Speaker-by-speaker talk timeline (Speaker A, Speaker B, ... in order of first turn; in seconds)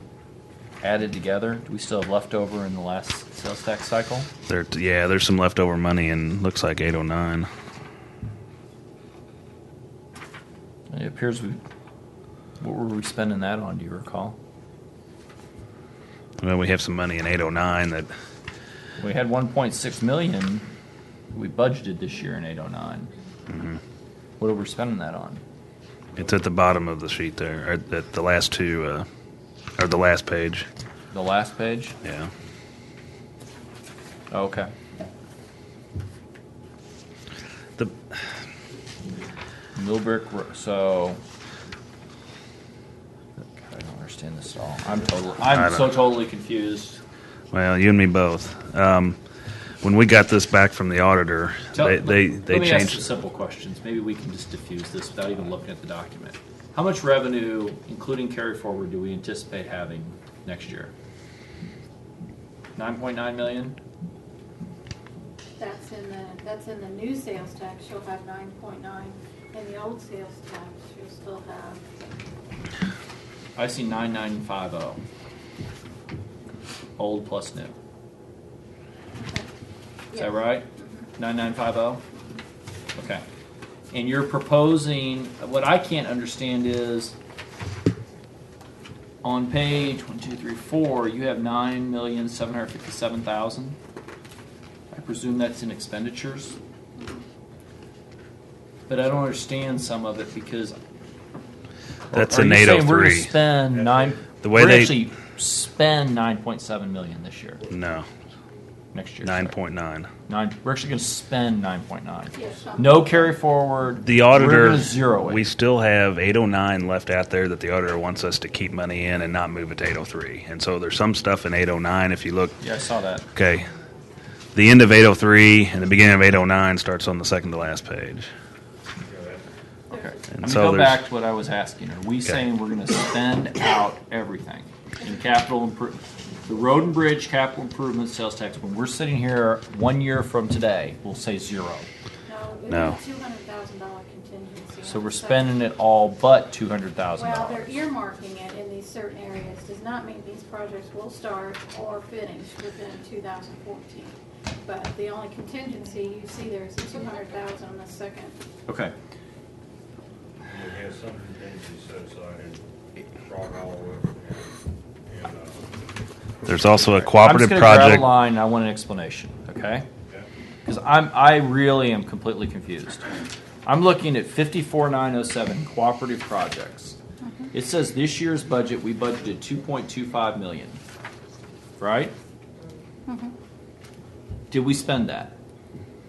Speaker A: 0.8-4.3, 10.9-11.6, 12.6-14.4, 19.0-20.6, 21.3-23.1, 24.4-25.4, 31.1-31.9, 34.3-34.7, 39.7-41.2, 43.5-47.0, 51.7-60.9, 62.8-63.8, 73.5-75.0, 77.0-77.7, 80.1-80.7, 81.2-82.0, 83.0-83.2, 83.9-87.1, 89.2-93.8, 94.9-96.6, 98.9-100.8, 102.1-107.7, 108.9-109.5, 110.3-115.4, 122.6-123.2, 129.9-141.9, 144.8-147.8, 158.7-158.9, 167.1-169.9, 170.6-173.1, 173.6-177.0, 177.5-180.8, 181.8-182.1, 184.5-185.3
Speaker B: 4.5-7.5, 16.4-18.1, 23.5-23.8, 26.1-29.1, 29.8-30.7, 32.0-32.3, 45.5-45.9, 47.5-49.2, 49.8-53.1, 102.1-103.4, 104.4-105.0, 107.7-108.1, 109.2-110.1, 114.0-122.6, 123.3-123.7, 124.5-128.3, 130.3-131.0, 142.7-143.0, 166.4-168.1
Speaker C: 65.6-72.2, 79.2-79.5, 80.1-80.8, 112.3-113.3, 129.9-130.2, 142.2-145.6, 147.2-158.3, 177.2-177.5, 183.1-183.3
Speaker D: 103.7-104.2, 129.0-129.4, 160.4-164.5, 165.1-165.7